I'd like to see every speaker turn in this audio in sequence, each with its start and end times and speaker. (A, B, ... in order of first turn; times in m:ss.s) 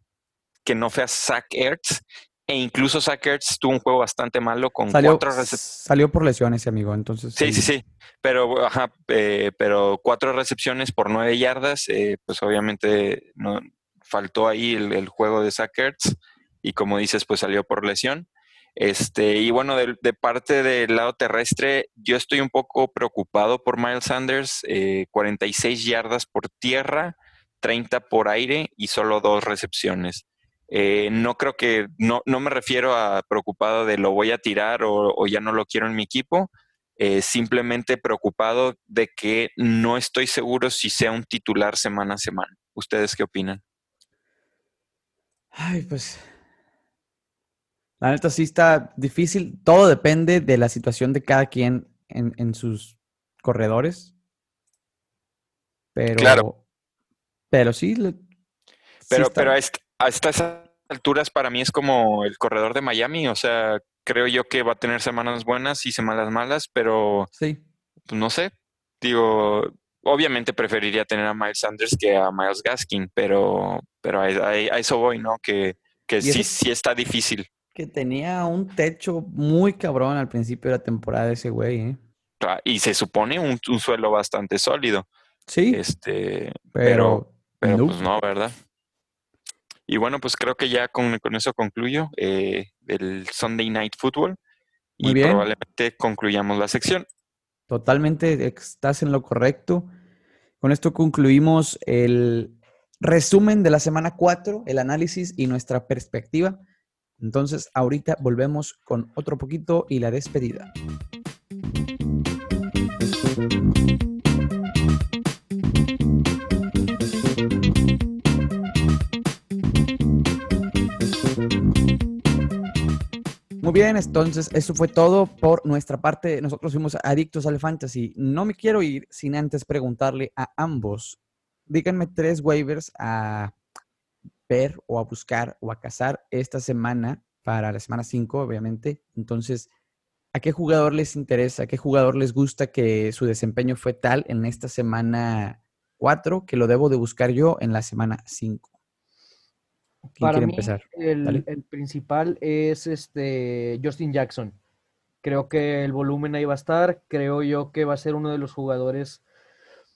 0:00.6-0:05.6 A
0:04.9-0:07.6 B
0:07.4-0:43.6 A
0:45.5-0:46.3 B
0:48.0-0:54.1 B
0:55.9-0:56.6 B
0:56.2-0:56.4 A
0:57.5-0:58.2 B
0:59.0-0:59.5 B
0:59.1-1:07.3 A
1:07.3-1:07.6 B
1:08.1-1:17.5 A
1:16.2-1:16.5 B
1:17.7-1:22.0 B
1:22.4-1:25.1 A
1:25.5-1:25.8 B
1:25.7-1:28.5 A
1:26.7-1:28.0 B
1:29.9-1:34.4 A
1:35.0-1:37.0 A
1:35.0-1:35.4 B
1:37.7-1:39.9 B
1:40.6-1:46.6 B
1:47.2-1:50.7 B
2:03.6-2:13.5 B
2:14.5-2:19.7 B
2:20.3-2:28.7 B
2:30.2-2:31.4 B
2:30.2-2:34.6 C
2:35.2-2:39.2 C